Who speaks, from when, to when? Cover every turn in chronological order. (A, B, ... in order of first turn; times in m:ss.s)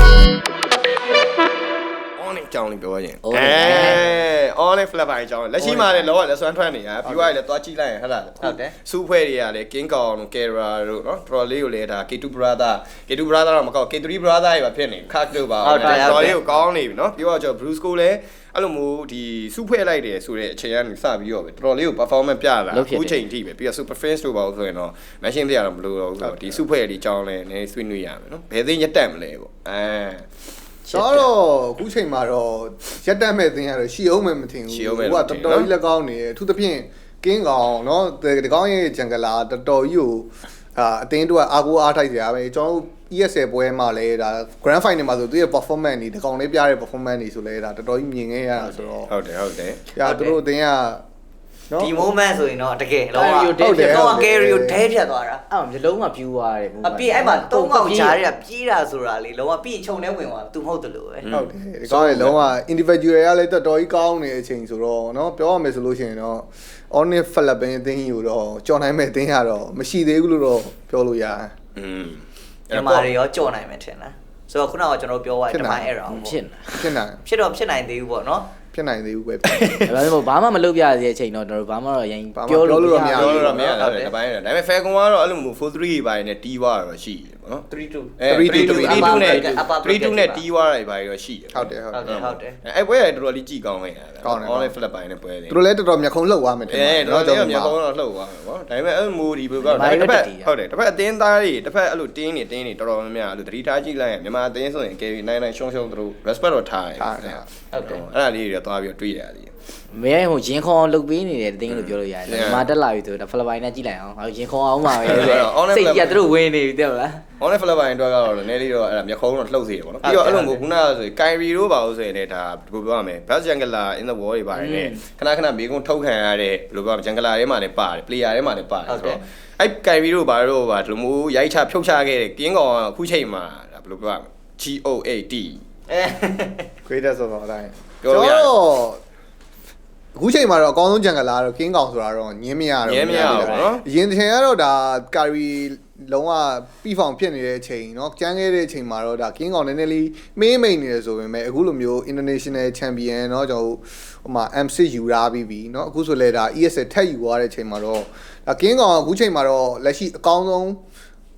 0:02.2-0:30.2 A
0:03.2-0:04.0 B
0:05.6-0:06.1 B
0:08.4-0:08.7 C
0:15.6-0:16.4 C
0:22.7-0:23.2 B
0:26.2-0:26.6 D
0:30.9-0:31.3 B
0:30.9-0:49.1 D
0:34.7-0:35.7 A
0:49.1-0:49.9 A
0:50.0-0:51.0 D
0:50.0-0:50.4 C
0:51.7-0:52.1 D
0:51.8-0:55.4 C
0:53.1-0:54.2 B
0:53.6-0:54.8 D
0:55.5-0:58.2 B
0:56.8-1:01.3 C
1:01.2-1:02.5 A
1:01.3-1:11.5 D
1:11.8-1:13.1 A
1:12.7-1:16.4 C
1:15.5-1:15.9 D
1:16.1-1:16.9 B
1:16.7-1:17.2 D
1:17.2-1:18.5 C
1:18.7-1:19.7 D
1:19.8-1:23.6 B
1:22.4-1:23.6 D
1:23.1-1:27.7 A
1:23.5-1:24.1 C
1:27.7-1:30.4 C
1:28.2-1:35.6 A
1:28.3-1:29.3 D
1:29.1-1:29.6 B
1:31.5-1:32.1 D
1:31.9-1:32.6 C
1:34.2-1:34.8 D
1:35.5-1:37.8 D
1:36.7-1:49.5 A
1:39.6-1:40.5 B
1:47.0-1:47.4 D
1:47.7-1:48.0 C
1:49.9-1:57.2 B
1:51.7-1:52.7 A
1:55.0-1:56.2 A
1:57.4-2:15.6 A
2:00.0-2:00.6 C
2:04.5-2:05.0 B
2:08.9-2:09.2 C
2:15.9-2:16.7 C
2:16.9-2:19.0 D
2:18.0-2:18.5 A
2:20.2-2:40.8 D
2:22.9-2:23.8 A